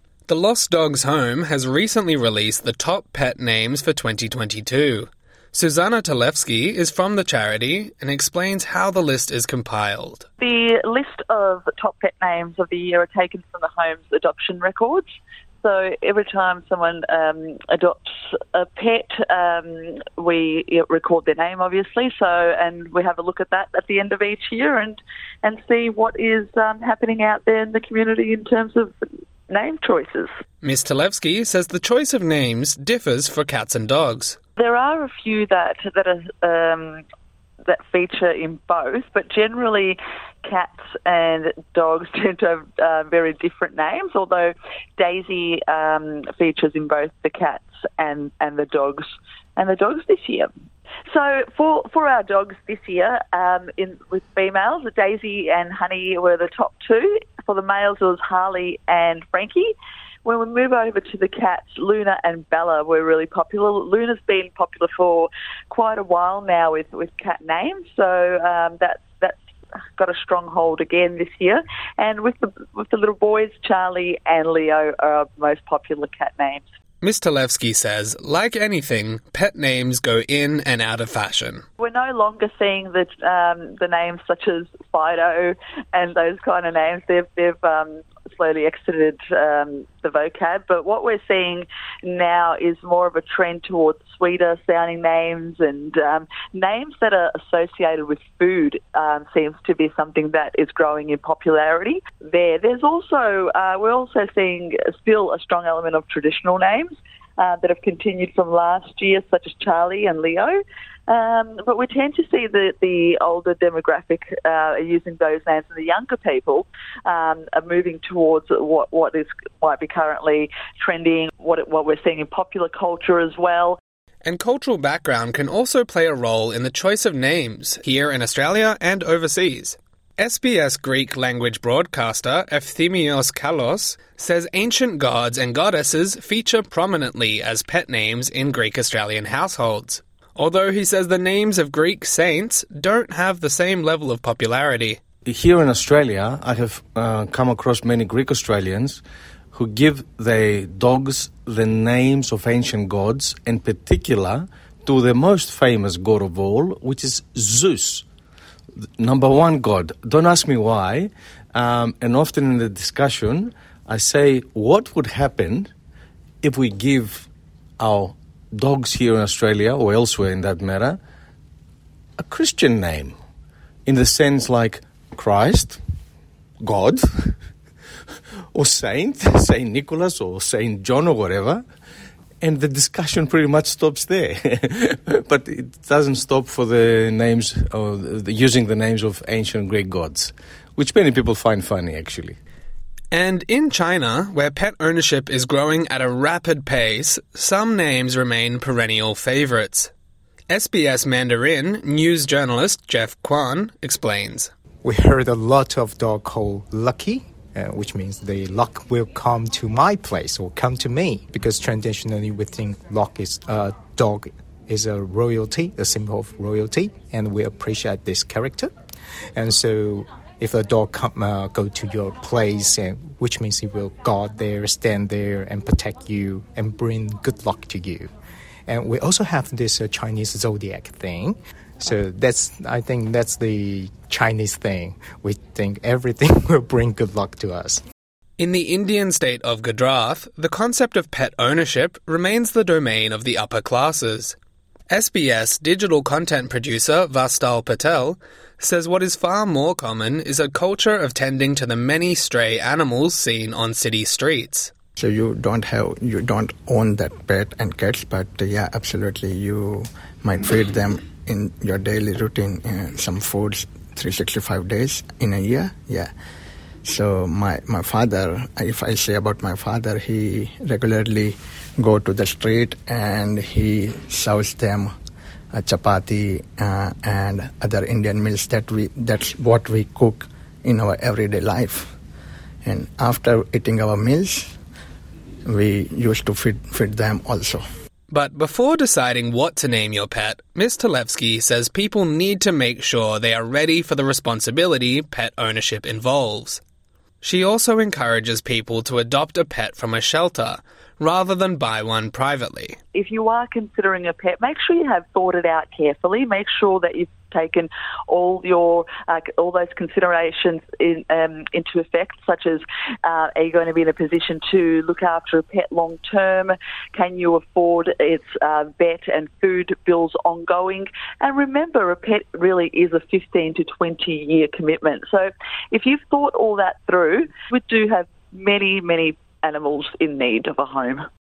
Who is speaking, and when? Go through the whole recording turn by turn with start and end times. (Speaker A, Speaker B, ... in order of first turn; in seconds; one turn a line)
Speaker A: 0.3-10.3
Speaker B: 10.4-15.1
Speaker B: 15.6-28.9
Speaker B: 29.5-30.3
Speaker A: 30.6-34.4
Speaker B: 34.6-37.0
Speaker B: 37.7-50.5
Speaker B: 51.1-59.7
Speaker B: 60.2-69.4
Speaker B: 70.0-76.7
Speaker A: 77.0-81.6
Speaker B: 81.8-123.8
Speaker A: 124.2-145.0
Speaker C: 145.3-149.0
Speaker C: 149.5-158.1
Speaker C: 159.0-165.7
Speaker C: 166.4-171.0
Speaker C: 172.2-173.2
Speaker C: 173.9-175.8
Speaker C: 176.6-177.4
Speaker C: 178.5-181.6
Speaker C: 182.4-192.4
Speaker A: 193.1-199.9
Speaker A: 200.5-204.5
Speaker D: 204.8-218.7
Speaker D: 219.3-228.1
Speaker D: 228.7-237.8
Speaker A: 238.4-244.4
Speaker A: 244.9-254.7
Speaker E: 255.0-266.1
Speaker E: 266.9-274.9
Speaker E: 275.5-281.9
Speaker E: 282.6-284.6
Speaker E: 285.4-287.6
Speaker A: 288.1-296.6
Speaker A: 297.2-302.8
Speaker B: 302.9-331.0